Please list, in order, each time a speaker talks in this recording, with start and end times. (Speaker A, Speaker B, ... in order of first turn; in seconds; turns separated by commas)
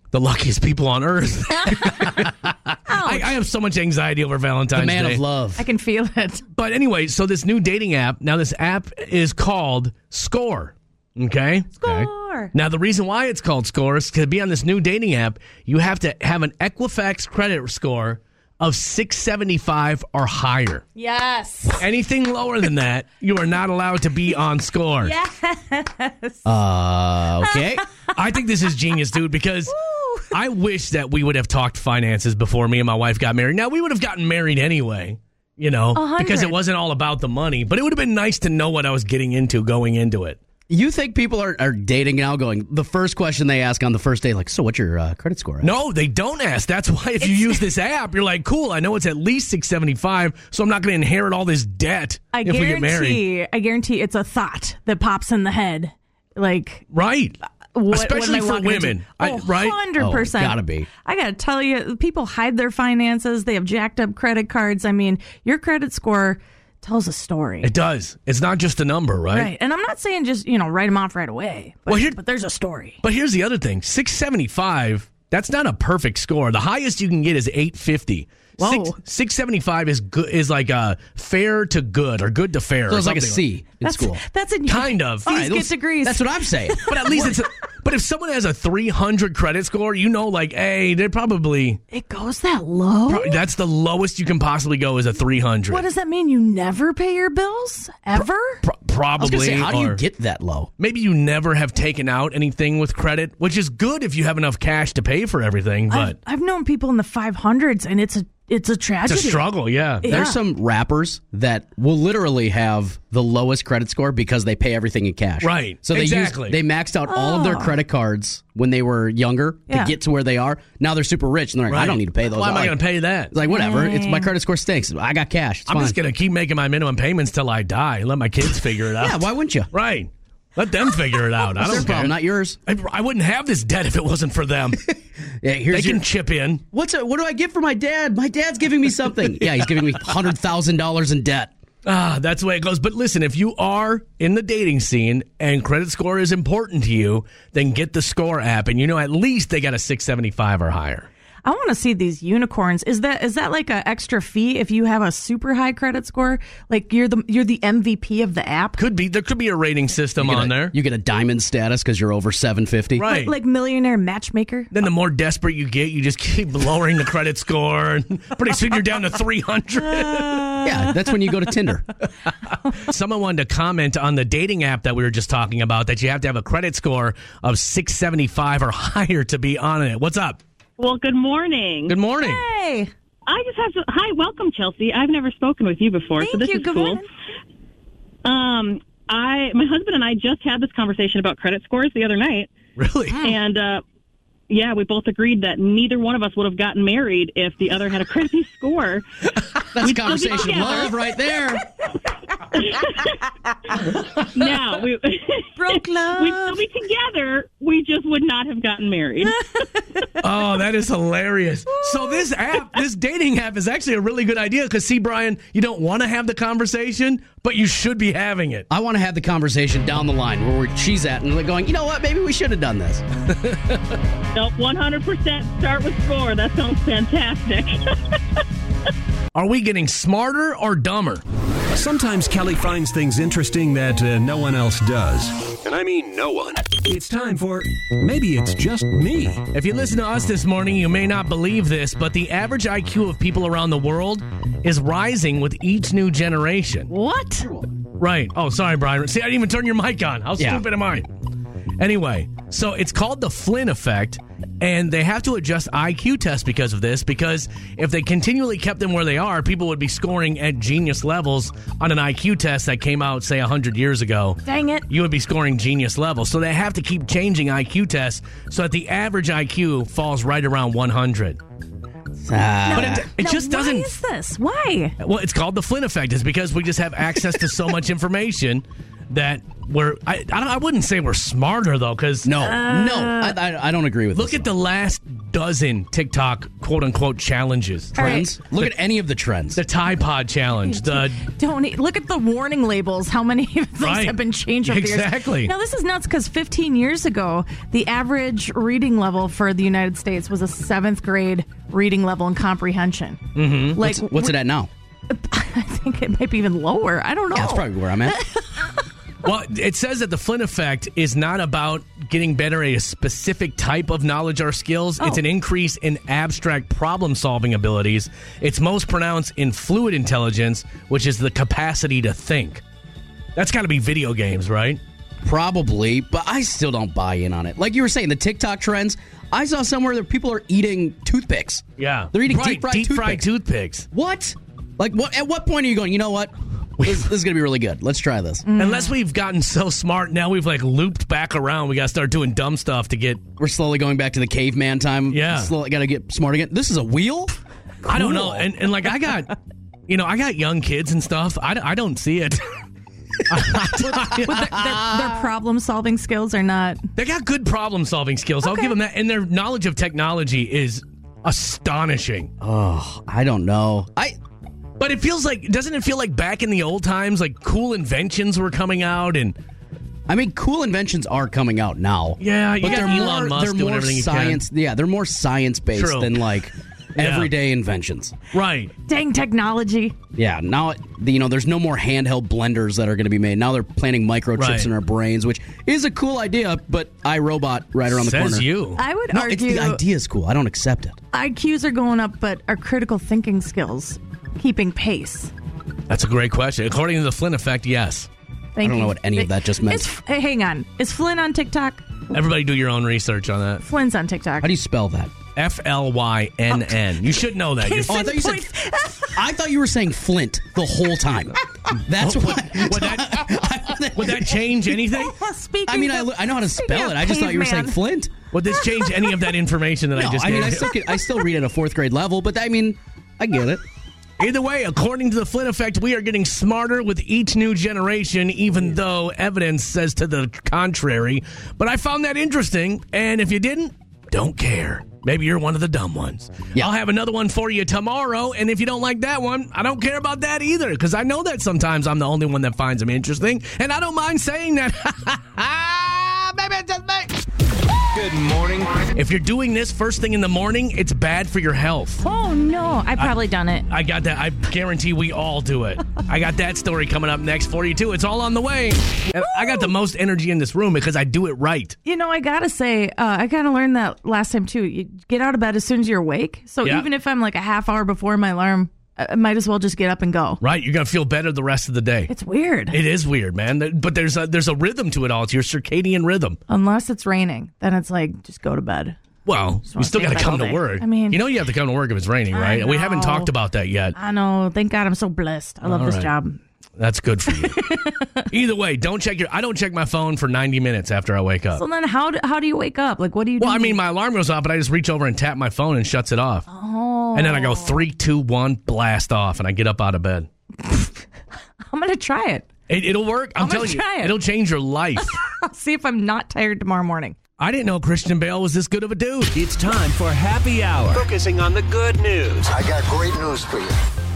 Speaker A: 0.1-5.2, Speaker B: 1.7-2.3, Speaker B: 2.9-3.4, Speaker C: 4.7-5.7, Speaker B: 5.6-6.4, Speaker A: 6.5-20.8, Speaker B: 11.8-12.5, Speaker B: 20.9-21.8, Speaker A: 21.8-25.1, Speaker B: 25.0-26.4, Speaker C: 26.4-27.8, Speaker B: 27.4-27.7, Speaker A: 28.1-29.8, Speaker B: 29.7-30.3, Speaker A: 30.3-40.4, Speaker B: 35.9-36.6, Speaker C: 40.7-45.7, Speaker A: 45.6-53.2, Speaker B: 47.2-47.6, Speaker B: 52.3-56.9, Speaker A: 56.9-59.8, Speaker B: 57.7-67.7, Speaker C: 60.0-60.9, Speaker A: 67.6-69.5, Speaker B: 69.3-73.0, Speaker A: 71.9-72.2, Speaker A: 73.0-83.4, Speaker B: 78.6-79.0, Speaker C: 82.9-84.2, Speaker B: 83.8-87.4, Speaker A: 84.7-85.3, Speaker C: 85.2-86.9, Speaker A: 86.8-91.8, Speaker B: 91.9-93.4, Speaker A: 93.1-95.8, Speaker B: 95.7-98.6, Speaker A: 98.2-100.0, Speaker C: 99.2-100.7, Speaker A: 100.8-106.2, Speaker B: 105.9-110.4, Speaker A: 109.0-110.1, Speaker C: 110.0-126.0, Speaker A: 115.4-116.6, Speaker B: 117.1-117.8, Speaker A: 121.7-123.3, Speaker B: 123.4-124.3, Speaker A: 125.7-134.8, Speaker C: 129.0-129.7, Speaker C: 131.6-132.6, Speaker C: 135.4-136.0, Speaker A: 135.7-136.6, Speaker C: 136.7-141.5, Speaker A: 141.8-151.1, Speaker B: 151.4-158.8, Speaker A: 158.8-160.7, Speaker C: 160.2-163.0, Speaker A: 163.0-163.3, Speaker B: 163.0-164.7, Speaker A: 164.7-170.5, Speaker B: 169.9-170.9, Speaker C: 170.6-171.9, Speaker A: 172.7-180.4, Speaker D: 180.8-181.9, Speaker A: 181.9-182.4, Speaker B: 182.1-182.9, Speaker D: 183.2-187.0, Speaker B: 186.2-187.0, Speaker D: 188.2-192.5, Speaker A: 192.8-193.2, Speaker D: 193.2-193.8, Speaker D: 194.5-199.0, Speaker C: 199.7-201.6, Speaker D: 199.8-201.0, Speaker D: 202.6-202.9, Speaker D: 204.3-209.4, Speaker B: 205.6-206.6, Speaker B: 209.5-210.0, Speaker A: 210.2-218.7, Speaker B: 211.7-212.3, Speaker C: 218.7-223.0, Speaker A: 223.3-223.9, Speaker D: 224.3-227.8, Speaker A: 229.3-231.2, Speaker E: 231.7-239.4, Speaker A: 239.5-246.9, Speaker B: 246.9-247.5, Speaker C: 247.4-247.7, Speaker A: 248.0-251.1, Speaker C: 250.4-250.6, Speaker A: 251.8-271.4, Speaker B: 264.4-264.9, Speaker C: 272.2-273.1, Speaker B: 272.6-274.9, Speaker A: 272.7-273.9, Speaker A: 275.0-282.3, Speaker C: 282.2-284.5, Speaker B: 282.4-283.4, Speaker A: 284.1-288.7, Speaker C: 287.9-289.6, Speaker B: 287.9-288.3, Speaker A: 289.5-291.2, Speaker B: 290.6-304.4, Speaker A: 293.8-295.5, Speaker A: 303.3-303.8, Speaker C: 303.8-304.7, Speaker B: 305.1-308.4, Speaker C: 307.3-308.2, Speaker A: 309.2-322.6, Speaker A: 323.4-324.8, Speaker C: 325.2-333.3, Speaker A: 331.8-333.9, Speaker C: 333.9-338.5, Speaker A: 336.8-337.1, Speaker B: 338.5-338.9, Speaker A: 338.5-343.2, Speaker C: 343.4-348.5, Speaker A: 345.1-345.5, Speaker A: 347.9-349.3, Speaker A: 349.9-352.5, Speaker A: 353.3-354.6, Speaker B: 353.8-356.8, Speaker A: 356.9-362.3, Speaker B: 358.4-358.7, Speaker C: 362.4-364.2, Speaker A: 364.8-369.4, Speaker C: 370.1-378.1, Speaker A: 372.2-374.4, Speaker A: 375.7-376.2, Speaker A: 376.9-377.3, Speaker A: 378.3-378.7, Speaker B: 378.9-379.9, Speaker C: 380.1-388.5, Speaker A: 384.4-384.7, Speaker A: 387.9-388.8, Speaker B: 388.8-389.8, Speaker C: 389.1-391.0, Speaker B: 391.1-395.3, Speaker A: 395.9-398.1, Speaker B: 398.6-401.8, Speaker C: 398.6-399.9, Speaker A: 402.1-403.6, Speaker B: 403.6-404.5, Speaker C: 404.4-405.1, Speaker A: 405.4-408.1, Speaker B: 406.6-409.2, Speaker C: 407.9-408.5, Speaker C: 409.1-414.4, Speaker A: 412.0-415.2, Speaker B: 414.9-417.8, Speaker C: 415.7-418.1, Speaker A: 418.3-420.8, Speaker B: 418.6-419.3, Speaker C: 419.9-423.6, Speaker A: 424.2-447.1, Speaker A: 448.9-452.0, Speaker B: 452.0-453.6, Speaker A: 453.7-461.8, Speaker B: 459.2-459.7, Speaker B: 461.8-470.4, Speaker A: 470.4-472.1, Speaker B: 472.1-472.8, Speaker A: 472.7-476.4, Speaker B: 476.5-479.0, Speaker A: 479.2-484.0, Speaker B: 479.6-481.2, Speaker B: 482.3-483.3, Speaker B: 483.9-486.4, Speaker A: 485.6-486.1, Speaker A: 486.8-487.6, Speaker B: 487.3-488.2, Speaker A: 488.3-491.6, Speaker B: 491.5-493.8, Speaker A: 493.4-496.5, Speaker B: 496.5-497.8, Speaker A: 497.1-500.3, Speaker B: 500.6-501.0, Speaker B: 501.6-502.5, Speaker A: 502.7-505.2, Speaker B: 503.4-504.2, Speaker B: 505.0-507.2, Speaker A: 507.4-509.3, Speaker E: 509.3-513.0